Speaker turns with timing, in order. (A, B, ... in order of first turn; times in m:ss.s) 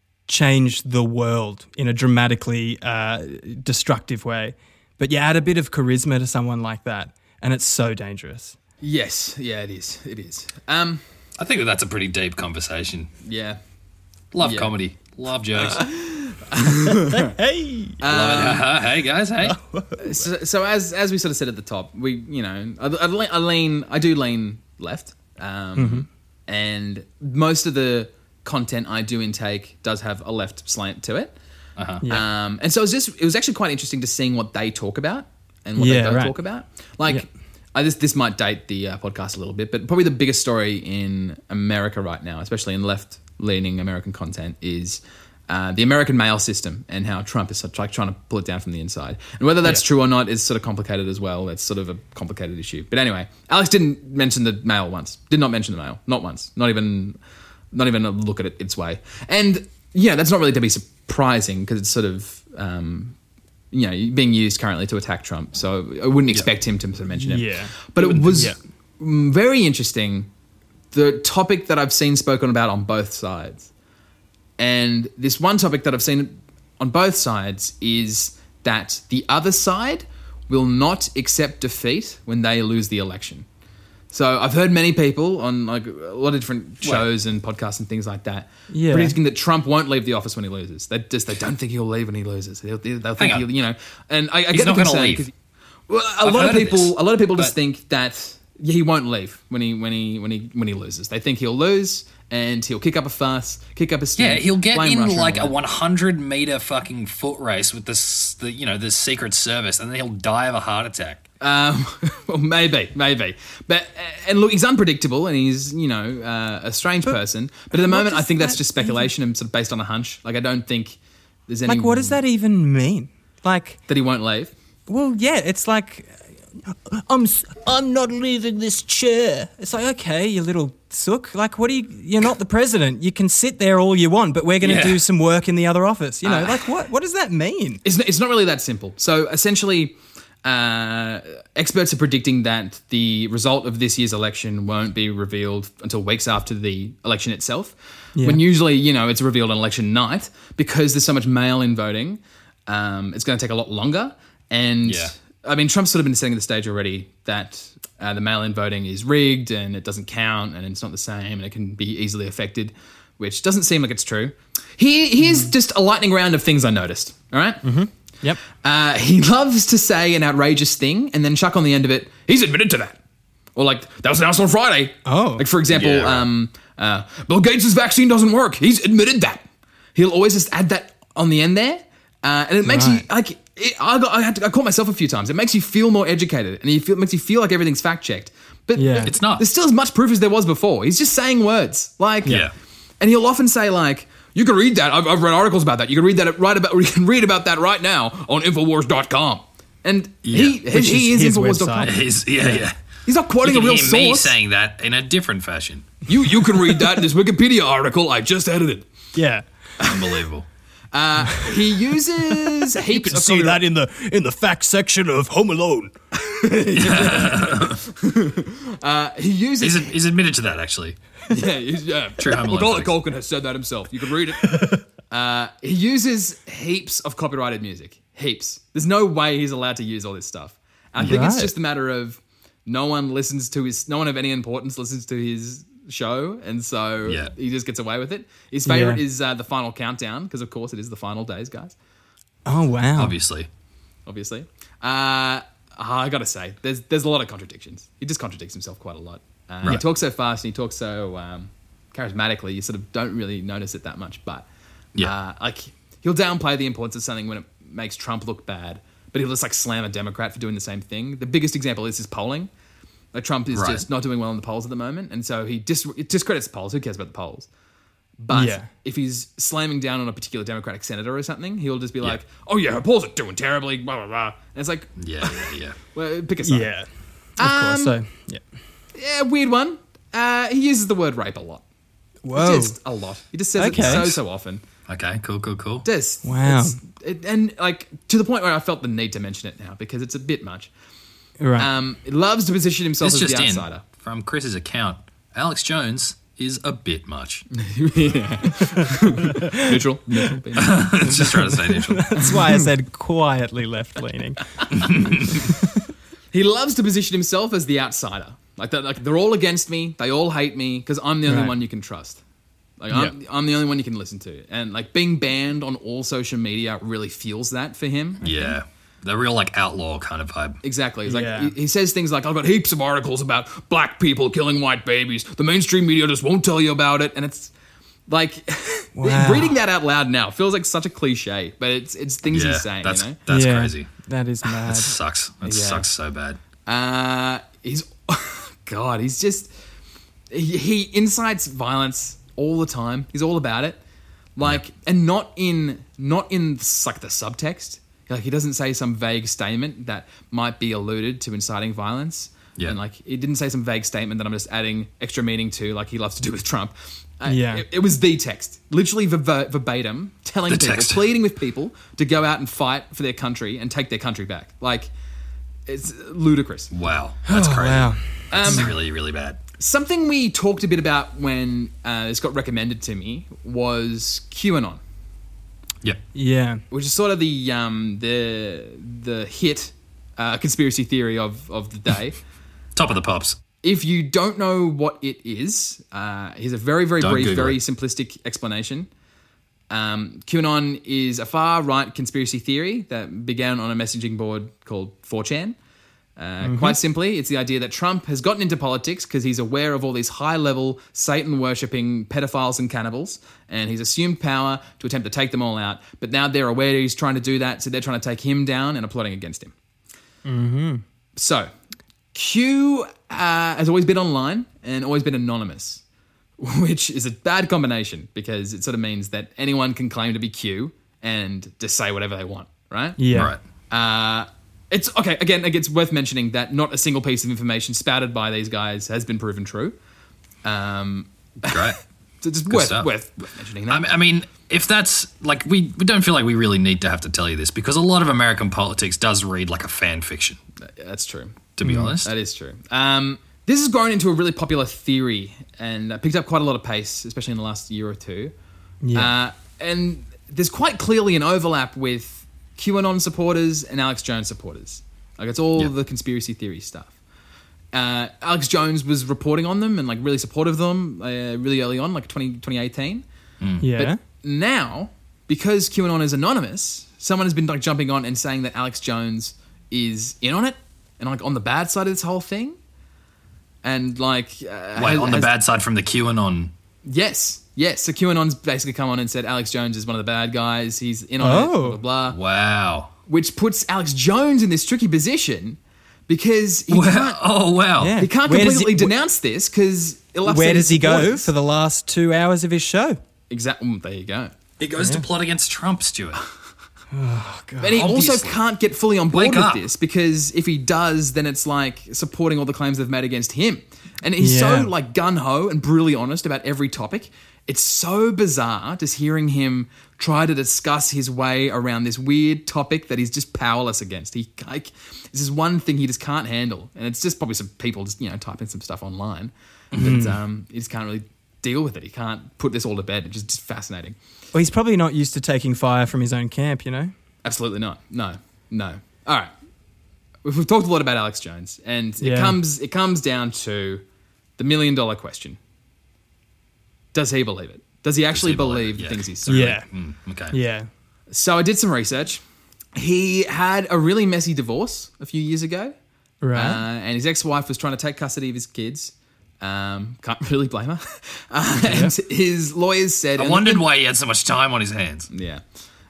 0:00.3-0:08.6 A
0:08.8-0:11.0 B
0:11.4-0:13.1 C
0:13.2-0:13.6 B
0:14.3-0:15.8 C
0:14.4-0:14.7 B
0:15.5-0:17.4 B
0:16.8-0:18.0 A
0:18.0-0:18.7 B
0:18.1-0:19.6 C
0:19.4-0:20.0 A
0:20.0-0:31.3 B
0:25.8-0:26.0 A
0:31.8-0:32.0 C
0:32.0-0:57.2 B
0:35.8-0:36.3 A
0:57.7-1:03.2 B
1:03.7-1:10.3 B
1:07.2-1:07.8 A
1:08.0-1:08.3 C
1:08.3-1:08.6 A
1:10.9-1:13.7 B
1:14.6-1:23.4 B
1:24.1-1:35.3 B
1:28.7-1:29.2 A
1:33.2-1:33.5 C
1:34.5-1:35.3 C
1:35.9-1:45.6 B
1:36.2-1:37.5 C
1:44.2-1:51.2 C
1:51.4-2:02.2 B
1:57.7-1:59.1 A
2:01.7-2:03.8 A
2:03.9-2:04.5 B
2:04.9-2:17.8 A
2:14.6-2:15.0 C
2:16.2-2:16.7 B
2:17.8-2:47.7 B
2:34.8-2:35.1 C
2:47.6-2:48.4 A
2:48.5-2:53.0 B
2:53.6-2:59.4 B
2:55.0-2:55.4 A
2:55.7-2:56.3 C
2:59.9-3:12.4 B
3:02.6-3:03.0 A
3:08.8-3:09.1 A
3:09.0-3:09.4 C
3:12.2-3:12.5 C
3:13.0-3:22.0 B
3:20.2-3:20.6 C
3:20.7-3:21.9 A
3:21.8-3:22.8 C
3:23.0-3:24.4 B
3:23.4-3:26.0 C
3:26.1-3:28.9 B
3:29.1-3:29.4 A
3:29.8-3:30.2 B
3:29.8-3:30.4 C
3:30.9-3:33.6 B
3:31.3-3:31.7 A
3:32.3-3:35.9 A
3:36.1-3:40.0 B
3:36.7-3:37.8 C
3:39.6-3:41.0 C
3:41.3-4:01.7 B
3:42.2-3:43.0 C
3:51.0-3:51.2 C
3:51.0-3:51.5 A
3:57.0-3:57.3 C
3:58.6-3:59.0 A
4:02.4-4:03.2 A
4:03.0-4:03.5 C
4:04.0-4:14.4 B
4:15.0-4:22.5 B
4:23.1-4:27.5 B
4:23.5-4:23.8 C
4:28.2-4:36.7 B
4:28.3-4:28.7 A
4:35.0-4:35.8 C
4:36.4-4:36.9 A
4:37.4-4:38.0 B
4:37.4-4:38.4 A
4:38.9-4:41.6 B
4:42.2-4:42.8 A
4:42.3-4:44.6 B
4:43.6-4:44.1 A
4:43.7-4:44.2 C
4:44.9-4:45.9 C
4:45.8-4:50.7 B
4:46.2-4:46.8 A
4:51.4-4:51.7 A
4:51.6-4:53.8 B
4:53.0-4:57.4 C
4:57.5-5:01.5 B
4:58.6-4:59.8 A
5:00.5-5:02.2 C
5:01.2-5:04.6 A
5:02.1-5:02.7 B
5:04.6-5:05.7 B
5:04.7-5:05.5 C
5:06.3-5:12.2 B
5:11.3-5:11.6 A
5:12.8-5:18.5 B
5:18.2-5:20.6 C
5:20.6-5:27.5 B
5:21.1-5:21.5 A
5:28.1-5:33.2 B
5:29.0-5:29.6 A
5:32.3-5:33.9 C
5:33.3-5:35.0 A
5:34.6-5:36.4 C
5:35.4-5:35.9 B
5:36.6-5:39.5 B
5:40.3-5:43.8 B
5:44.4-6:04.9 B
5:57.3-5:57.6 A
6:00.5-6:01.0 C
6:05.7-6:06.7 B
6:06.7-6:09.4 C
6:07.3-6:08.7 A
6:08.3-6:08.7 B
6:09.6-6:14.8 B
6:16.1-6:16.6 A
6:16.7-6:22.2 B
6:22.7-6:23.4 C
6:23.6-6:28.9 B
6:27.0-6:27.6 C
6:29.7-6:35.6 B
6:36.2-6:49.5 B
6:36.4-6:36.8 A
6:50.2-6:50.8 A
6:51.2-6:51.5 B
6:52.1-6:55.8 B
6:56.4-7:03.0 B
7:03.0-7:03.3 A
7:03.1-7:03.4 C
7:03.7-7:09.7 B
7:10.4-7:13.9 B
7:11.4-7:11.8 C
7:12.5-7:12.9 C
7:13.7-7:20.4 C
7:20.6-7:28.3 B
7:21.6-7:22.1 C
7:21.6-7:21.9 A
7:28.8-7:29.1 A
7:28.9-7:37.0 B
7:37.7-7:43.0 B
7:43.4-7:43.6 C
7:43.6-7:44.0 A
7:43.7-7:52.6 B
7:53.6-7:55.3 B
7:54.8-7:56.5 C
7:56.8-8:02.2 B
8:01.2-8:01.8 A
8:02.1-8:02.9 C
8:03.1-8:07.2 B
8:06.7-8:08.0 C
8:07.8-8:08.9 A
8:08.0-8:11.3 B
8:10.2-8:13.0 A
8:13.3-8:14.3 B
8:14.6-8:16.2 C
8:14.8-8:15.0 A
8:16.9-8:17.8 A
8:17.6-8:44.0 B
8:17.7-8:18.4 C
8:19.1-8:19.6 C
8:24.2-8:24.7 A
8:39.8-8:40.2 A
8:44.3-8:46.9 A
8:47.2-8:49.3 B
8:50.2-8:53.8 B
8:52.0-8:52.4 A
8:54.4-8:55.4 B
8:56.9-8:59.6 B
8:58.1-9:00.4 C
8:59.3-8:59.6 A
9:00.3-9:00.7 A
9:01.1-9:02.2 B
9:02.8-9:05.7 B
9:06.2-9:06.6 A
9:06.3-9:13.6 B
9:11.6-9:11.9 A
9:13.2-9:15.1 C
9:15.1-9:15.4 B